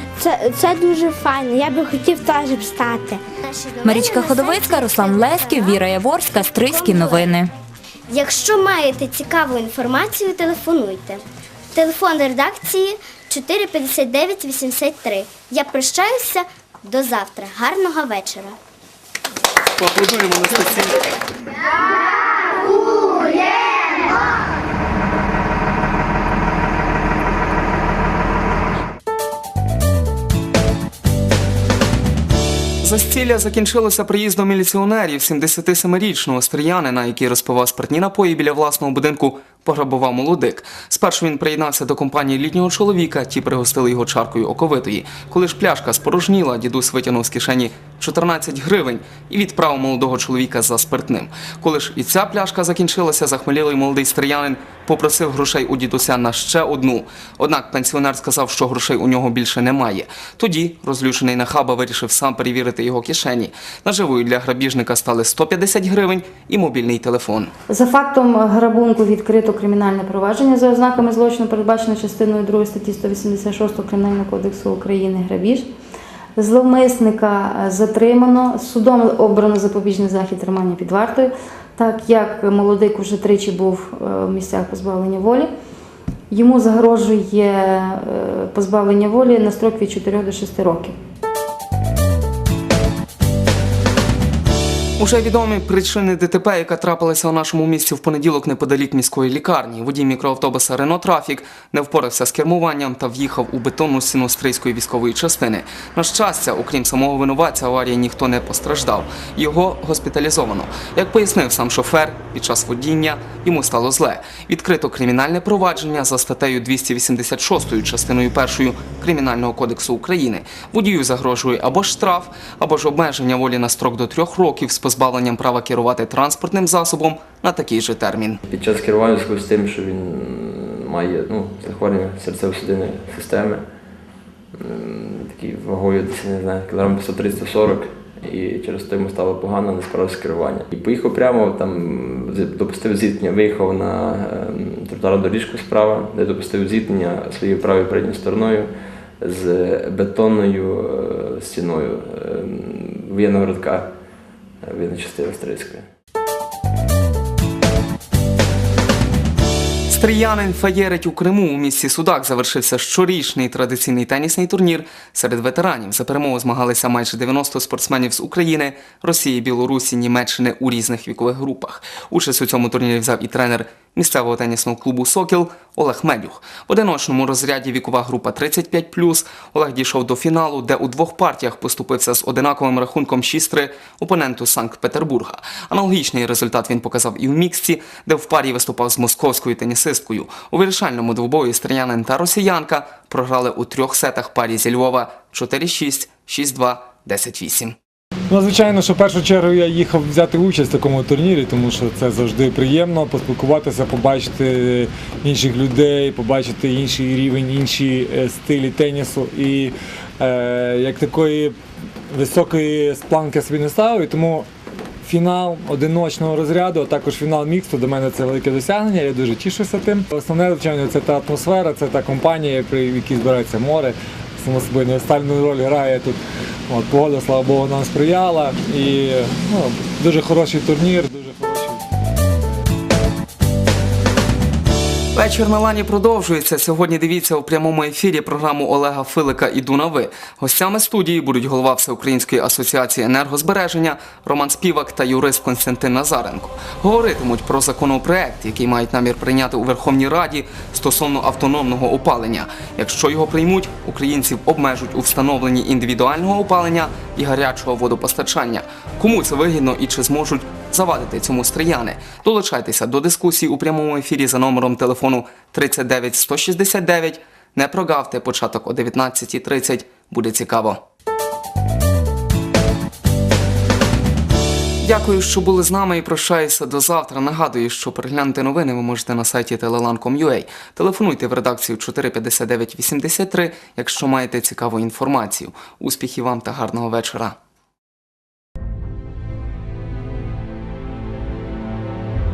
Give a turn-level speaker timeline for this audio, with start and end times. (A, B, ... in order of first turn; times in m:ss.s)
0:00.2-0:03.2 A
0:03.4-0:05.8 B
0:03.8-0:07.5 C
0:06.5-0:07.3 B
0:08.1-0:18.6 B
0:19.8-0:21.0 D
0:32.8-1:07.5 D
1:07.7-1:15.7 E
1:16.4-1:25.5 E
1:26.3-1:30.9 E
1:35.0-2:08.4 D
2:08.5-2:13.6 F
2:14.6-2:28.7 F
2:29.2-2:33.9 F
2:34.6-2:35.8 F
2:39.9-3:17.7 D
3:18.3-3:31.6 G
3:32.1-3:34.4 G
3:35.0-3:46.2 G
3:46.7-3:51.8 G
3:55.1-4:30.8 D
4:34.8-4:47.4 D